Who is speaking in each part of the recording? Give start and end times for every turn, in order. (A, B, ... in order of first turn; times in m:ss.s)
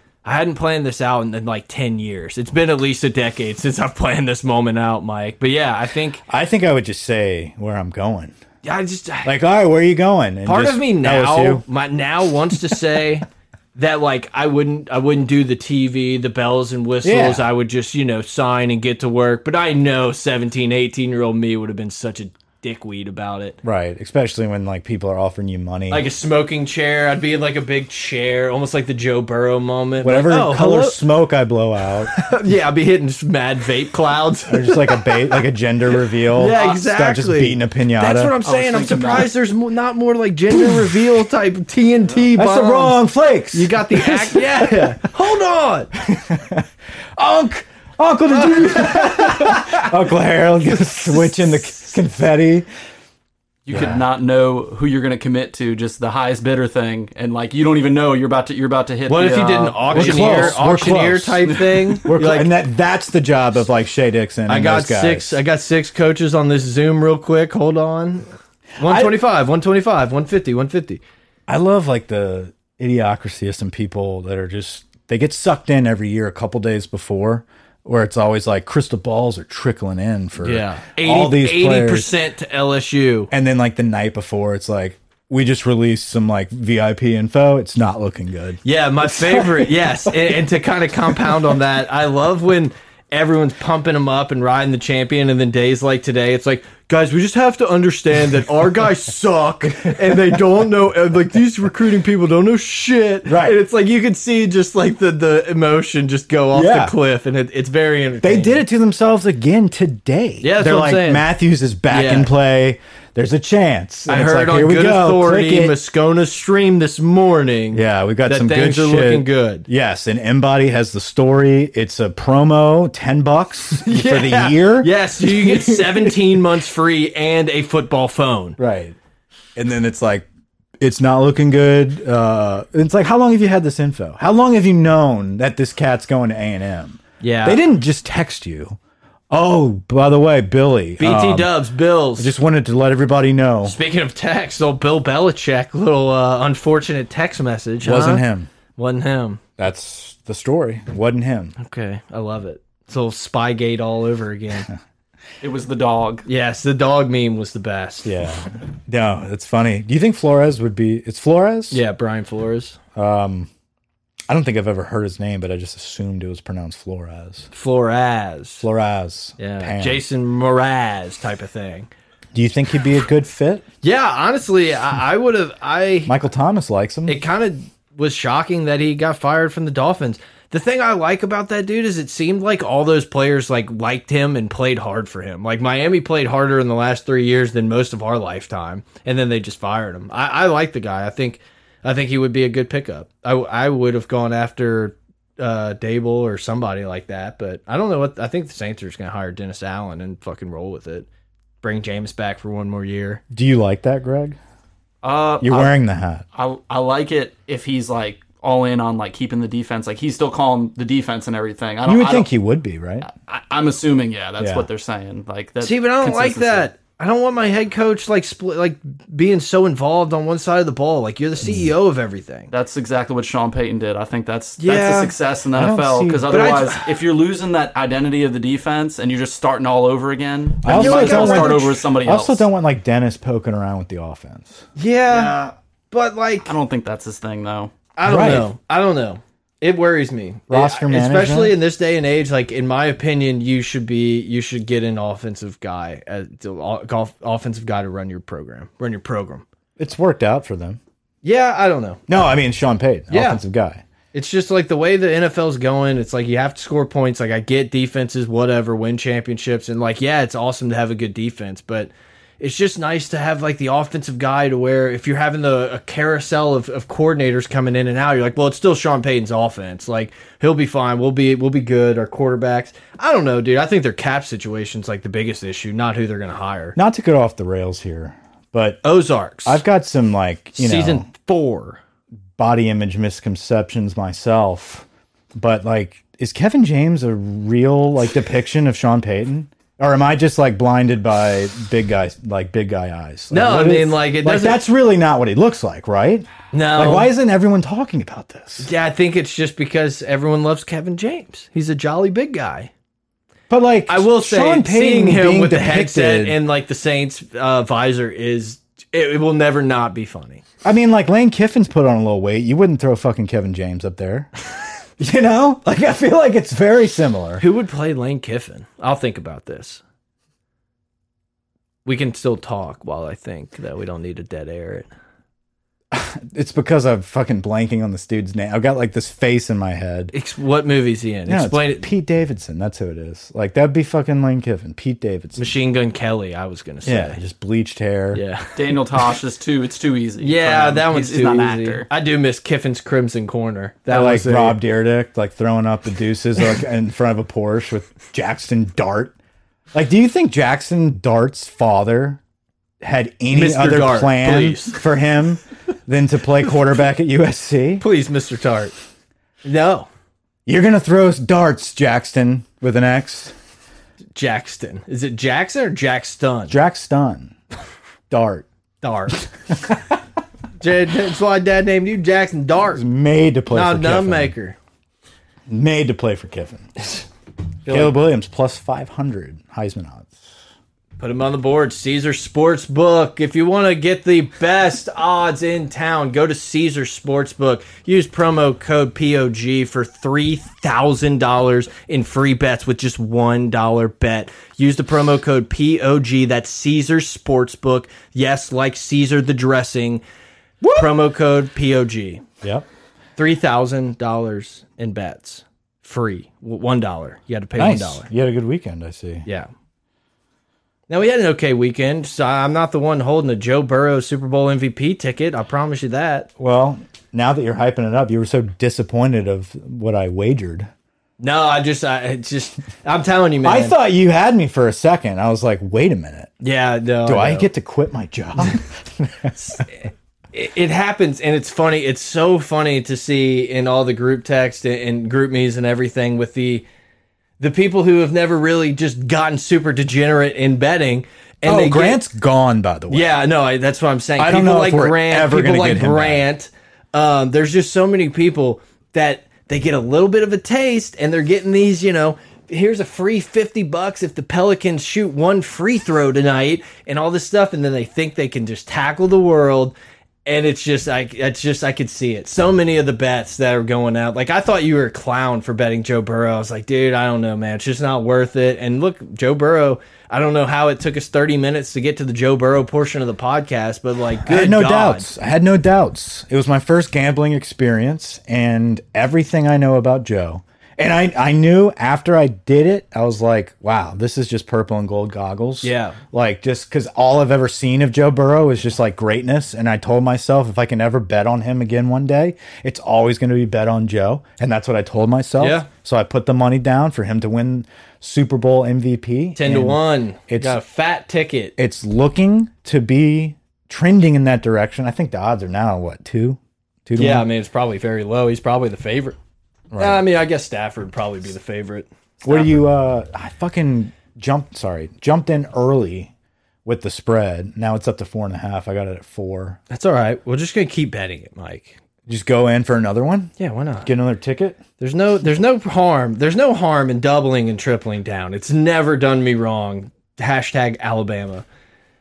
0:00.2-0:06.2 A
0:06.3-0:08.4 B
0:08.6-0:09.3 A
0:09.2-0:11.6 B
0:10.4-0:23.6 A
0:17.0-0:17.4 B
0:23.6-0:26.1 B
0:25.9-0:31.0 A
0:30.0-0:32.2 B
0:32.1-0:35.4 A
0:34.5-0:38.4 B
0:36.3-0:45.9 A
0:38.4-0:39.3 C
0:42.3-0:45.0 B
0:46.0-0:52.7 B
0:48.3-0:49.8 A
0:53.6-1:00.6 C
0:53.7-0:54.0 B
0:59.1-1:02.5 A
0:59.9-1:01.5 B
1:02.0-1:05.4 B
1:04.5-1:11.0 A
1:08.8-1:09.2 B
1:11.5-1:22.1 B
1:20.4-1:23.3 A
1:23.3-1:29.7 B
1:28.6-1:48.6 A
1:43.2-1:43.6 B
1:46.5-1:46.9 B
1:48.2-1:55.8 B
1:50.4-1:51.2 A
1:51.9-1:52.3 A
1:54.1-1:59.6 A
1:57.7-2:06.2 B
2:03.8-2:08.6 A
2:08.6-2:08.9 B
2:09.5-2:10.3 B
2:10.8-2:18.8 B
2:17.2-2:17.6 A
2:19.3-2:21.5 B
2:21.0-2:22.3 A
2:22.2-2:23.8 B
2:23.6-2:28.2 A
2:27.8-2:28.5 B
2:28.8-2:29.4 A
2:29.6-2:31.5 B
2:31.6-2:34.7 A
2:35.4-2:36.2 C
2:36.2-2:38.2 A
2:38.0-2:41.8 B
2:41.7-2:42.8 A
2:42.9-2:43.5 B
2:44.3-2:47.5 B
2:47.5-2:48.6 A
2:48.6-2:50.0 B
2:49.4-2:51.9 A
2:52.3-2:53.6 B
2:53.8-2:56.2 A
2:56.1-2:57.2 B
2:57.0-3:21.1 A
3:21.6-3:23.2 A
3:23.3-3:24.4 B
3:25.0-3:25.8 C
3:25.4-3:26.2 B
3:26.3-3:32.3 C
3:31.8-3:33.1 B
3:33.0-3:36.7 C
3:34.4-3:34.6 B
3:35.6-3:42.5 A
3:42.5-3:52.4 C
3:44.6-3:45.1 A
3:45.5-3:46.4 B
3:46.3-3:46.9 A
3:50.6-3:54.6 B
3:50.7-3:51.8 A
3:54.8-3:56.5 A
3:55.1-3:55.5 C
3:56.4-3:57.7 C
3:58.0-4:09.4 A
3:58.0-3:58.5 B
4:00.5-4:01.6 B
4:09.8-4:10.8 B
4:11.2-4:12.0 A
4:12.1-4:13.8 B
4:13.1-4:13.4 A
4:14.1-4:36.8 A
4:36.8-4:38.8 B
4:38.8-4:39.6 A
4:39.4-4:41.0 B
4:40.6-4:41.8 A
4:42.4-4:58.7 B
4:53.3-4:54.6 A
4:56.5-4:57.1 A
4:58.6-5:02.7 A
5:03.5-5:06.4 B
5:03.9-5:10.4 A
5:10.6-5:14.3 B
5:15.0-5:17.4 B
5:17.4-5:19.8 A
5:21.8-5:24.9 A
5:25.9-5:30.1 B
5:30.1-5:31.8 A
5:31.3-5:35.4 B
5:35.4-5:37.2 A
5:36.8-5:38.2 B
5:38.1-5:38.6 A
5:38.5-5:41.9 C
5:40.2-5:44.6 A
5:43.9-5:49.1 B
5:49.7-5:52.2 B
5:52.8-5:57.8 B
5:53.3-5:54.8 A
5:57.8-5:58.7 A
5:59.4-5:59.9 A
6:00.4-6:03.3 B
6:04.2-6:06.6 A
6:06.5-6:07.3 B
6:08.1-6:08.4 B
6:08.8-6:09.3 A
6:09.7-6:09.9 B
6:10.6-6:12.8 A
6:12.7-6:14.3 B
6:13.5-6:14.6 A
6:15.5-6:16.7 B
6:17.6-6:17.9 A
6:17.7-6:20.3 B
6:21.0-6:40.0 A
6:40.6-6:40.9 B
6:40.7-6:42.2 A
6:43.2-6:48.0 A
6:47.6-6:49.2 B
6:50.9-6:56.3 A
6:56.4-7:00.7 B
7:01.2-7:03.8 A
7:03.4-7:06.3 B
7:06.4-7:07.5 A
7:07.0-7:09.6 B
7:09.4-7:16.6 A
7:17.4-7:22.0 A
7:21.4-7:23.1 B
7:22.9-7:39.7 A
7:24.2-7:26.2 B
7:40.2-7:55.1 A
7:54.2-8:20.6 B
8:05.6-8:06.0 A
8:15.4-8:15.7 A
8:19.4-8:21.5 A
8:21.6-8:27.2 B
8:27.0-8:29.2 A
8:29.7-8:30.0 B
8:29.8-8:32.5 A
8:32.2-8:36.1 B
8:36.6-8:39.6 B
8:39.7-8:41.8 A
8:42.1-8:44.6 B
8:43.4-8:43.9 A
8:44.8-8:51.4 A